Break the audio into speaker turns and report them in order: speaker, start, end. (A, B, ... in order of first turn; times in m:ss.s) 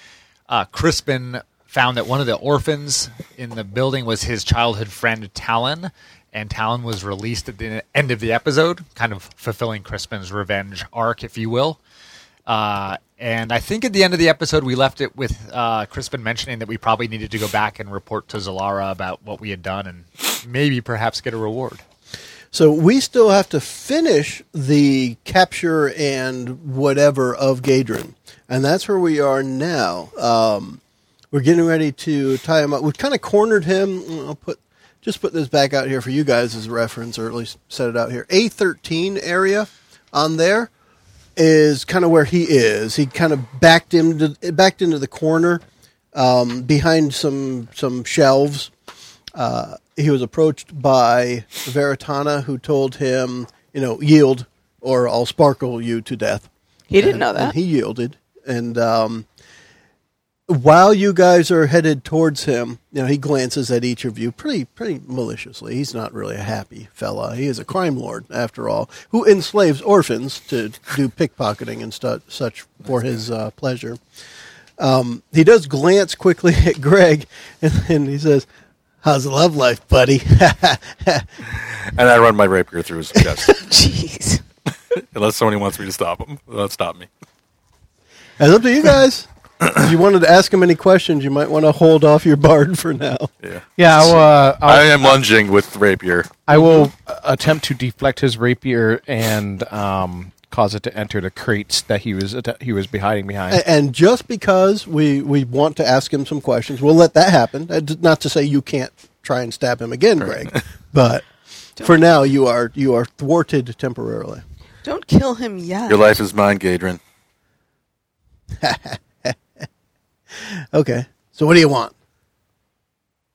0:00.5-0:11.8 A
0:12.5-0:21.8 A
0:22.5-0:30.8 B
0:31.3-0:40.7 B
0:41.4-0:45.6 B
0:46.1-0:48.7 B
0:49.4-0:56.5 B
0:56.9-0:57.5 C
0:57.0-0:59.2 B
1:00.5-1:14.0 B
1:14.8-1:18.5 B
1:19.0-1:21.3 B
1:21.7-1:23.6 D
1:23.5-1:24.4 C
1:24.9-1:27.1 D
1:28.4-1:33.3 B
1:33.4-1:36.4 D
1:33.8-1:35.2 E
1:36.5-1:43.6 E
1:36.5-1:36.9 B
1:43.5-1:51.2 B
1:51.8-1:54.4 B
1:54.8-1:56.2 C
1:55.9-1:57.0 D
1:58.6-1:59.4 B
2:00.4-2:01.9 B